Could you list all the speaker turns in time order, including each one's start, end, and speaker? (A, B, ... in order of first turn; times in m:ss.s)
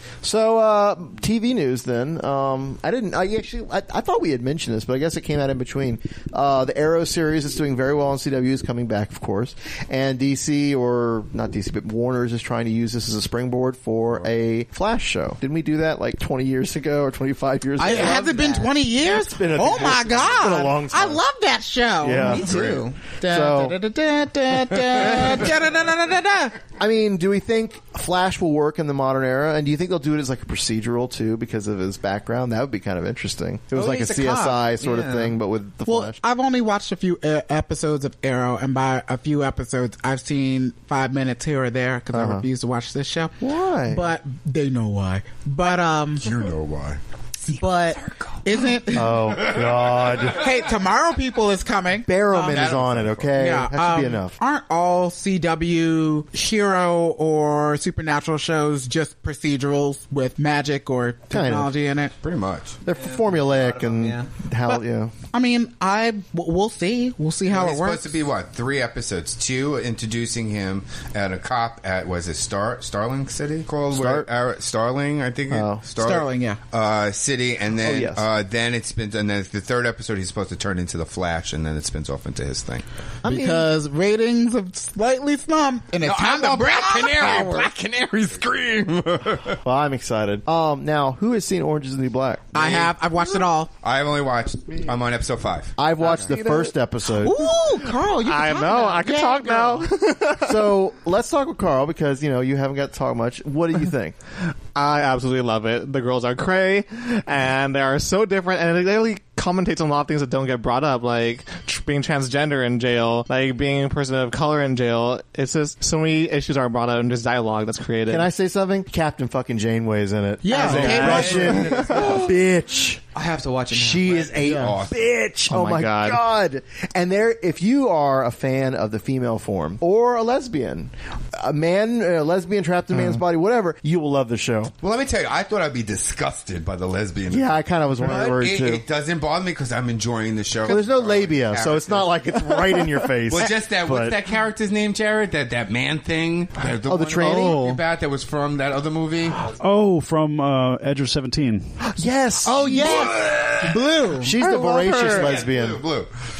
0:00.2-0:21.2 A
0:17.8-0:22.4 B
0:17.8-0:18.7 C
0:22.0-0:23.8 A
0:22.2-0:23.0 C
0:22.5-0:22.8 D
0:23.2-0:26.5 B
0:26.8-0:36.2 A
0:33.7-0:35.4 C
0:35.8-0:46.3 B
0:42.1-0:42.4 A
0:43.4-0:44.0 A
0:46.2-0:47.0 D
0:47.5-0:49.2 B
0:48.0-0:48.4 D
0:48.9-0:50.4 A
0:49.4-0:50.5 D
0:50.4-0:52.8 B
0:52.1-0:54.3 A
0:52.3-0:53.4 D
0:53.4-1:02.1 B
1:01.3-1:01.7 A
1:02.2-1:02.8 D
1:02.8-1:05.1 A
1:02.9-1:04.3 C
1:05.3-1:08.2 B
1:07.5-1:22.8 D
1:13.9-1:14.3 A
1:15.5-1:15.8 A
1:16.0-1:16.6 B
1:17.8-1:18.2 A
1:23.2-1:27.7 B
1:23.2-1:23.7 A
1:26.0-1:29.6 D
1:29.6-1:32.6 A
1:32.5-1:33.7 B
1:32.6-1:36.3 D
1:35.8-1:37.3 A
1:36.3-1:36.6 B
1:37.2-1:39.9 B
1:38.2-1:40.5 E
1:40.4-1:44.2 A
1:44.7-1:58.2 E
1:58.1-2:03.0 A
2:00.4-2:01.8 B
2:00.5-2:02.3 C
2:00.7-2:02.2 D
2:03.1-2:04.3 C
2:03.7-2:14.7 A
2:04.1-2:05.1 D
2:04.4-2:04.7 B
2:05.5-2:06.2 E
2:12.9-2:13.2 E
2:14.8-2:29.4 D
2:17.3-2:18.8 A
2:20.6-2:24.2 A
2:26.8-2:27.7 A
2:27.2-2:27.8 E
2:29.6-2:31.8 F
2:31.9-2:33.2 A
2:32.4-2:34.9 B
2:32.6-2:33.8 D
2:34.2-2:35.8 A
2:34.4-2:34.9 E
2:34.9-2:36.1 D